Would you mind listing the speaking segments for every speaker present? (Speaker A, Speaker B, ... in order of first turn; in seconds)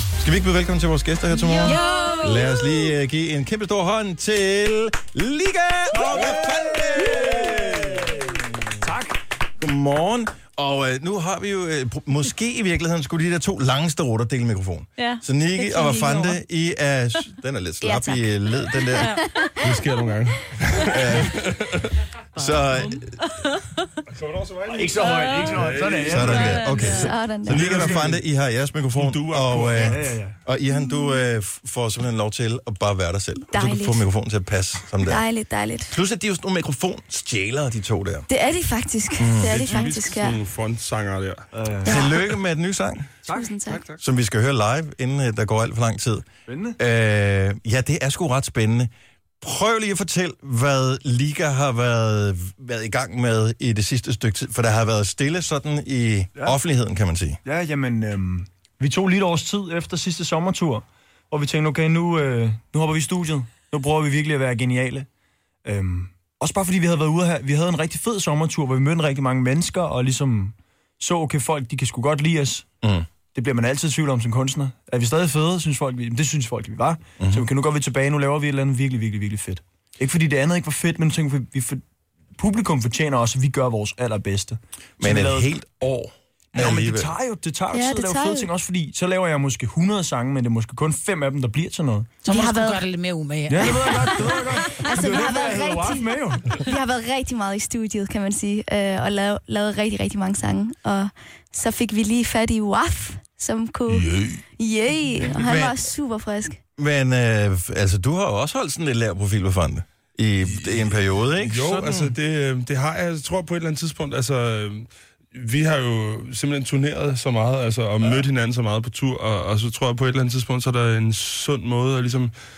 Speaker A: 0.2-8.3, 9.6-19.2, 20.9-21.5, 22.4-23.2, 26.1-35.2, 35.9-38.3, 39.2-39.9, 41.9-43.1, 44.0-46.3, 46.8-48.9, 49.4-57.4, 77.2-77.5, 85.0-87.1, 105.3-105.8, 106.8-112.1
Speaker B: 1.5-2.9, 15.0-16.4, 19.0-19.5, 22.4-23.9, 25.2-25.6, 26.2-27.1, 92.3-93.6
Speaker C: 5.9-9.2, 24.7-27.0, 27.6-28.1, 29.8-30.4, 41.5-42.0, 43.2-44.0, 46.5-46.8, 57.4-65.1, 65.7-72.7, 73.3-81.8, 82.4-85.5, 86.5-92.1, 93.5-96.7
Speaker D: 17.8-19.5, 26.9-27.6, 30.7-31.2, 33.5-34.1, 35.0-35.9, 38.3-40.4, 41.9-42.1, 43.3-43.8, 87.7-88.5, 92.3-92.9, 93.6-106.6
Speaker E: 19.6-22.0, 24.1-26.6, 27.4-28.2, 28.9-30.1, 39.4-41.5, 110.4-122.3